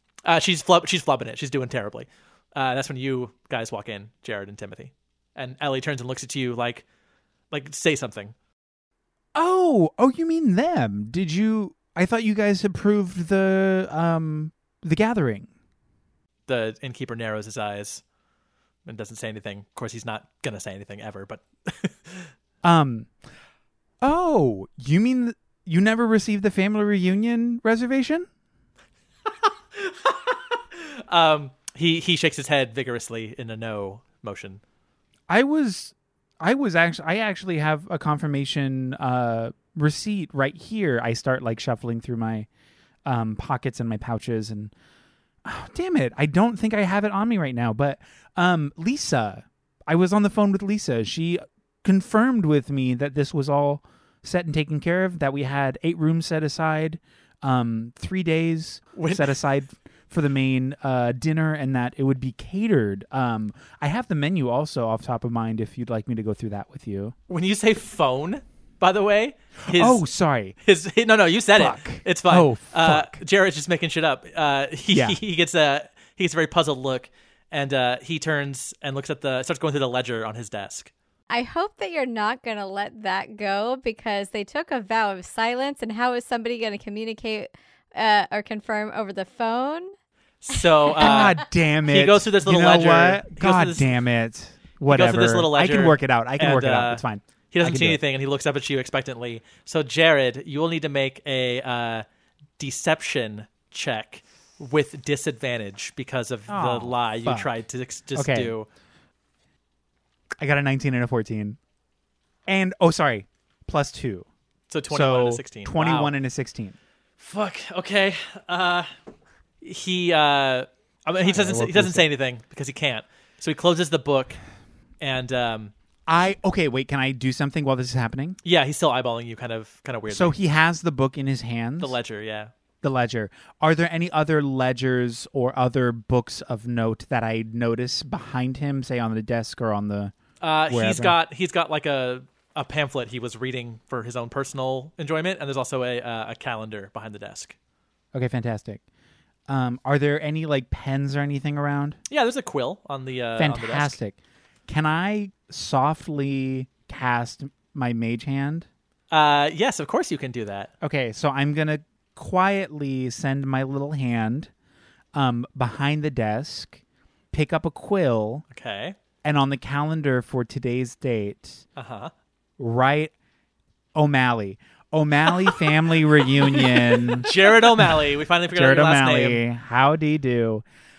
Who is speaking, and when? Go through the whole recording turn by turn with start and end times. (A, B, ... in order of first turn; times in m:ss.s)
0:00.2-0:06.8 A
0:07.5-0:08.3 A
0:09.3-0:15.5 B
0:16.5-0:18.0 A
0:18.8-0:22.3 A
0:22.6-0:23.1 B
0:24.0-0:28.3 B
0:29.4-0:34.6 A
0:35.3-0:42.5 B
0:43.0-0:44.7 B
0:45.4-1:07.2 B
0:59.0-0:59.4 A
1:07.3-1:10.0 A
1:09.6-1:10.5 B
1:10.6-1:20.9 A
1:11.6-1:13.2 B
1:14.9-1:15.2 B
1:21.3-1:29.9 C
1:30.4-1:33.9 A
1:31.0-1:38.0 B
1:34.9-1:42.0 A
1:42.6-1:48.7 A
1:46.5-1:47.6 B
1:48.1-1:48.5 B
1:50.4-1:51.6 B
1:52.4-1:54.3 B
1:54.7-1:56.1 A
1:54.9-1:56.8 B
1:57.2-1:58.9 A
1:59.6-2:04.4 A
2:01.2-2:02.1 B
2:05.0-2:05.7 A
2:06.1-2:08.4 B
2:08.4-2:10.4 A
2:10.1-2:12.0 B
2:11.8-2:12.5 A
2:12.8-2:20.1 B
2:20.4-2:27.5 A
2:20.7-2:21.2 B
2:28.1-2:28.8 B
2:29.5-2:32.0 B
2:32.1-2:34.0 A
2:33.4-2:38.7 B
2:39.1-2:40.7 A
2:40.8-2:44.5 B
2:45.1-2:46.8 B
2:47.3-2:48.4 B
2:48.5-2:49.0 A
2:49.2-2:51.6 B
2:51.8-2:52.1 A
2:52.6-2:53.1 B
2:53.9-3:00.6 B
2:56.4-2:59.4 A